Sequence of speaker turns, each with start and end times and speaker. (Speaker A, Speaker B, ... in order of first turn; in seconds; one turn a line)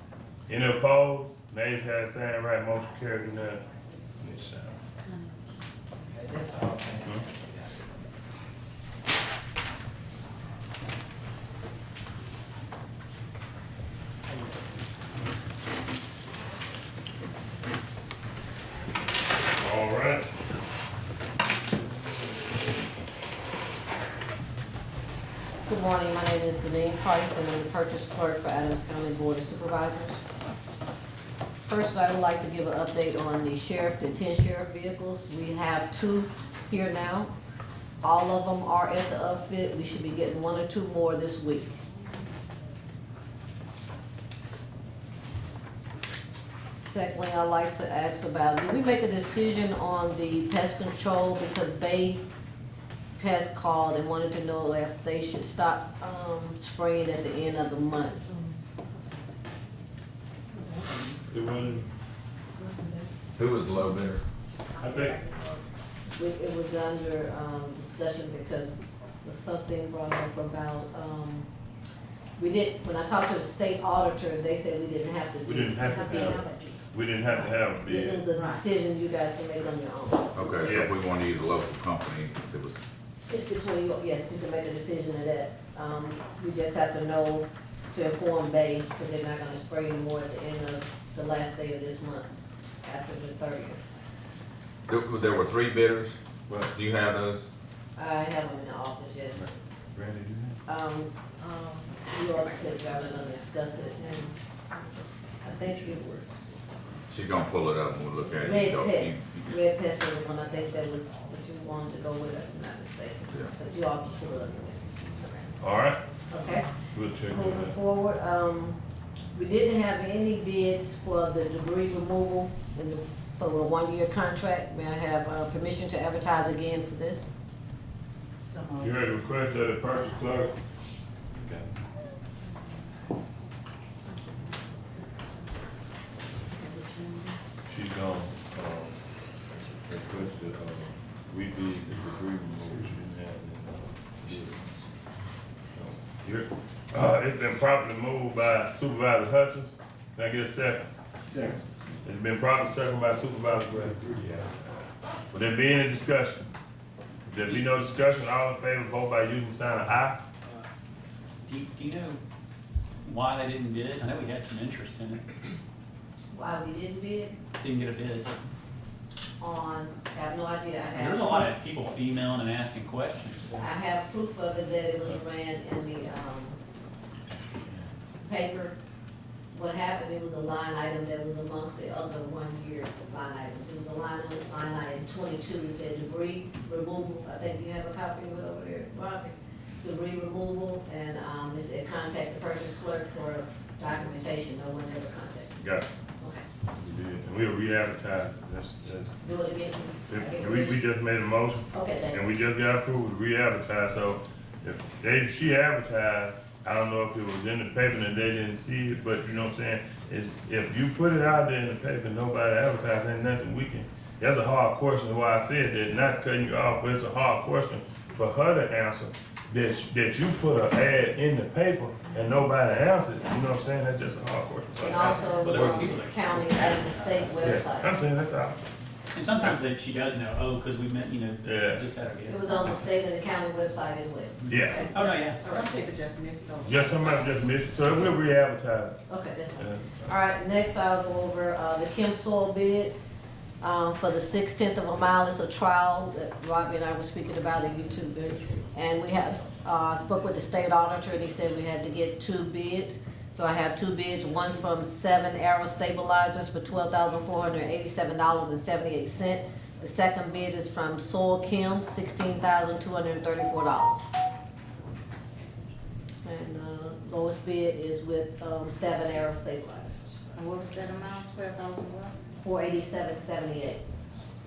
Speaker A: 0.5-3.6
Speaker A: 4.2-4.8
Speaker A: 7.0-7.3
Speaker A: 19.6-20.2
Speaker B: 25.6-30.2
Speaker B: 31.6-37.3
Speaker B: 38.0-41.8
Speaker B: 46.8-52.2
Speaker B: 53.2-58.3
Speaker C: 58.3-58.8
Speaker C: 60.5-61.2
Speaker A: 61.3-61.9
Speaker C: 62.5-63.1
Speaker D: 63.4-64.2
Speaker A: 64.8-65.2
Speaker C: 64.9-65.6
Speaker B: 66.2-68.7
Speaker B: 69.2-71.5
Speaker B: 72.4-76.5
Speaker A: 75.4-78.2
Speaker C: 75.8-76.8
Speaker B: 77.8-80.7
Speaker C: 78.3-78.6
Speaker D: 80.3-82.8
Speaker A: 80.6-80.9
Speaker B: 83.3-92.3
Speaker B: 92.8-93.8
Speaker D: 94.9-97.5
Speaker B: 98.0-99.5
Speaker A: 99.3-100.6
Speaker B: 100.7-101.1
Speaker C: 101.4-103.4
Speaker B: 102.1-104.3
Speaker B: 105.4-106.3
Speaker D: 107.1-109.5
Speaker B: 108.4-115.6
Speaker A: 115.6-116.0
Speaker B: 116.3-116.7
Speaker A: 117.0-117.7
Speaker B: 117.2-118.8
Speaker B: 119.3-127.3
Speaker C: 128.4-128.9
Speaker A: 128.8-130.5
Speaker A: 131.4-131.7
Speaker C: 136.6-137.4
Speaker A: 137.7-138.9
Speaker A: 139.9-144.6
Speaker A: 145.7-150.8
Speaker A: 152.0-154.4
Speaker A: 155.3-156.5
Speaker A: 157.3-160.2
Speaker E: 161.4-162.2
Speaker E: 163.0-165.2
Speaker B: 166.3-167.4
Speaker E: 167.6-168.3
Speaker B: 169.4-171.5
Speaker E: 170.9-173.7
Speaker B: 173.6-176.6
Speaker B: 178.2-178.8
Speaker B: 179.5-195.6
Speaker A: 195.6-195.9
Speaker B: 196.2-196.4
Speaker A: 196.7-199.2
Speaker B: 199.2-200.8
Speaker A: 200.1-225.9
Speaker B: 201.7-202.2
Speaker B: 224.8-227.9
Speaker E: 225.3-227.6
Speaker A: 227.4-228.6
Speaker E: 229.1-232.8
Speaker A: 231.4-231.8
Speaker B: 232.3-235.8
Speaker A: 234.5-234.9
Speaker E: 234.5-235.4
Speaker C: 235.3-237.3
Speaker A: 236.6-239.0
Speaker B: 239.1-243.0
Speaker A: 239.6-240.1
Speaker B: 243.6-264.1
Speaker B: 266.2-270.3
Speaker C: 270.3-272.1
Speaker B: 272.4-273.8